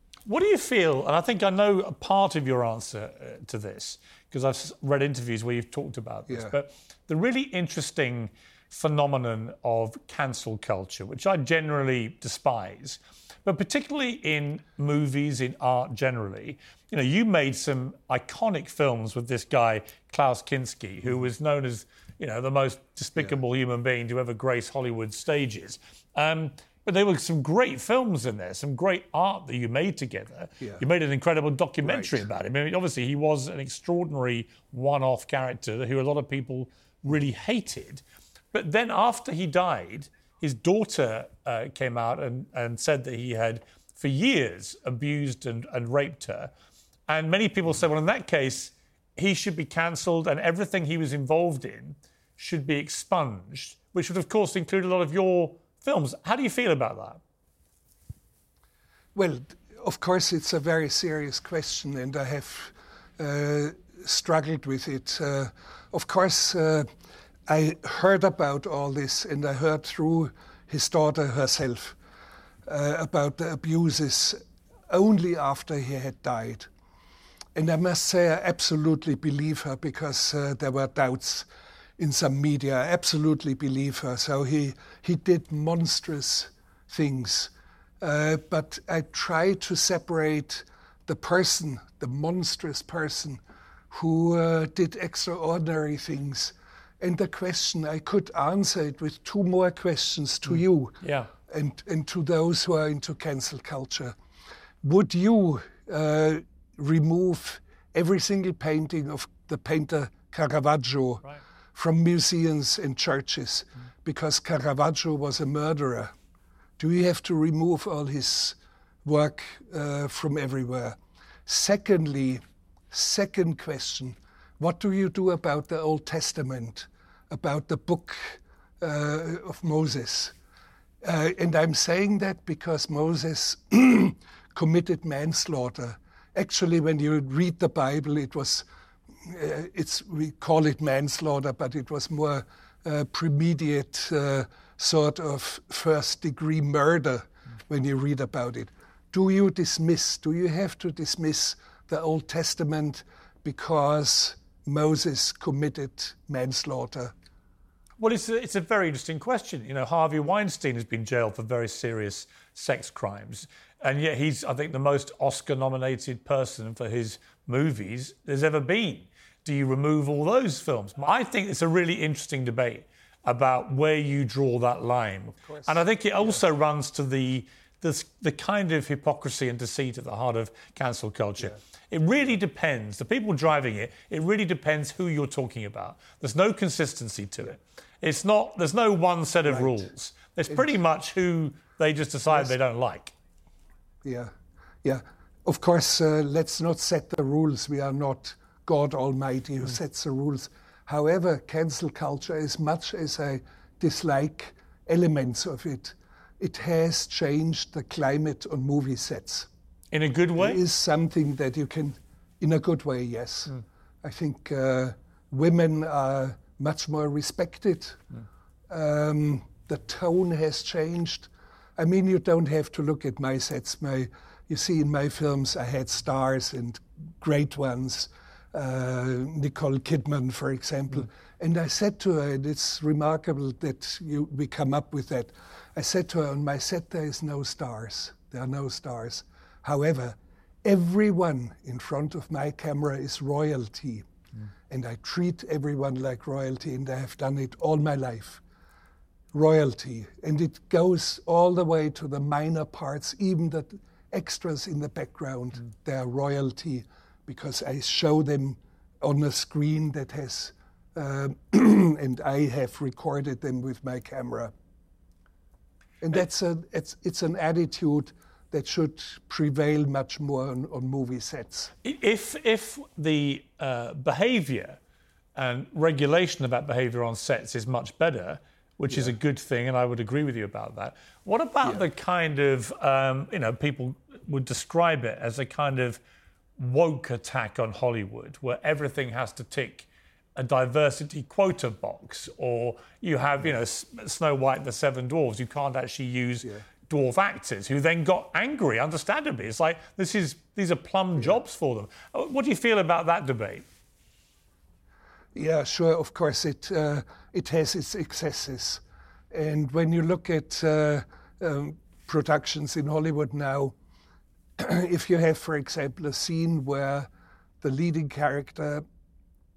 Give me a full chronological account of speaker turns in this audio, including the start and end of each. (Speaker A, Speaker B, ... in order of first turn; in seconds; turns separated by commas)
Speaker A: 0.2-38.0, Speaker B: 6.3-6.5, Speaker B: 31.8-32.2, Speaker A: 38.5-46.5, Speaker A: 47.1-57.2, Speaker B: 59.1-66.9, Speaker B: 67.5-72.0, Speaker B: 72.7-76.7, Speaker B: 77.5-104.2, Speaker A: 101.0-101.3, Speaker B: 104.8-116.1, Speaker B: 116.8-130.3, Speaker B: 131.0-138.7, Speaker B: 139.2-157.1, Speaker A: 158.0-193.1, Speaker B: 175.4-176.4, Speaker B: 189.4-189.8, Speaker B: 194.0-209.5, Speaker A: 209.9-210.6, Speaker B: 210.3-218.0, Speaker B: 218.7-244.1, Speaker B: 244.7-248.4, Speaker B: 249.3-264.5, Speaker B: 266.0-271.7, Speaker A: 271.8-274.8, Speaker A: 275.3-286.0, Speaker B: 278.9-279.1, Speaker A: 286.6-303.6, Speaker B: 305.3-313.7, Speaker B: 314.6-317.1, Speaker B: 317.6-318.8